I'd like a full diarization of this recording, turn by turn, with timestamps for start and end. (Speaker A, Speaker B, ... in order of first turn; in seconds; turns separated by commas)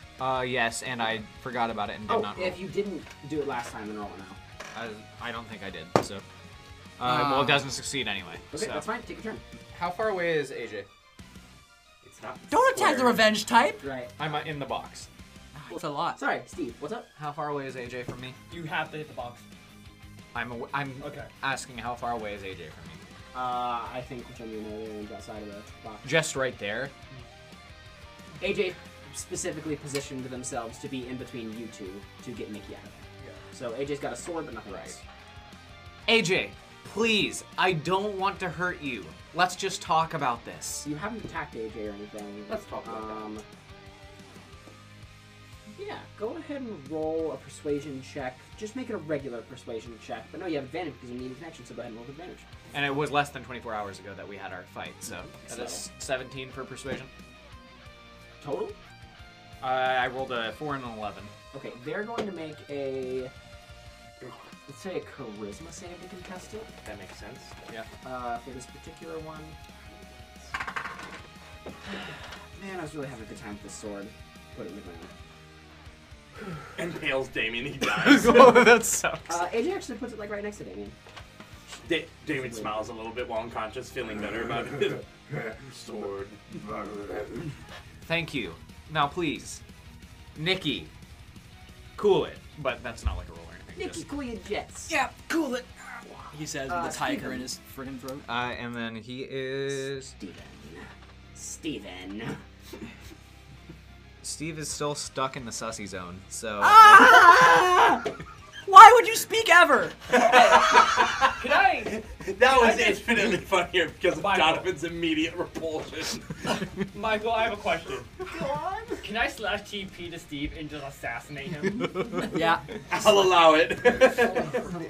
Speaker A: 0.2-2.6, Speaker B: 2.1-4.4, Speaker A: 4.7-6.2, Speaker A: 7.0-8.8, Speaker C: 7.0-7.7, Speaker B: 8.5-9.4, Speaker A: 9.7-10.9, Speaker D: 12.0-13.2, Speaker C: 12.5-13.8, Speaker B: 13.8-14.1, Speaker A: 14.2-15.1, Speaker C: 15.5-16.2, Speaker B: 15.7-17.1, Speaker A: 17.2-18.4, Speaker E: 18.5-19.4, Speaker A: 20.3-23.0, Speaker E: 21.0-21.3, Speaker B: 23.3-26.1, Speaker A: 26.0-26.9, Speaker B: 28.4-35.0, Speaker A: 36.1-40.9, Speaker B: 40.8-43.4, Speaker D: 42.5-43.3, Speaker B: 45.8-52.5, Speaker A: 52.7-57.1, Speaker B: 55.4-55.8, Speaker B: 58.4-58.8, Speaker A: 59.6-61.3, Speaker B: 61.5-63.3, Speaker B: 64.7-66.7, Speaker D: 66.8-67.5, Speaker B: 68.0-69.5, Speaker B: 72.5-75.1, Speaker D: 76.8-78.7, Speaker A: 77.8-79.4, Speaker B: 79.3-80.9, Speaker D: 81.8-86.5, Speaker A: 88.0-89.6, Speaker A: 90.3-90.9, Speaker A: 92.0-94.0, Speaker B: 93.7-95.0, Speaker C: 94.9-98.2, Speaker B: 96.1-97.5, Speaker A: 98.2-100.1, Speaker B: 100.0-102.4, Speaker A: 104.2-107.2, Speaker C: 106.6-108.1, Speaker C: 108.6-110.2, Speaker D: 110.1-116.5, Speaker E: 110.4-113.2, Speaker E: 114.1-114.7, Speaker E: 116.9-118.1, Speaker B: 118.2-119.0, Speaker E: 119.0-122.3, Speaker C: 122.3-122.6, Speaker D: 122.9-124.6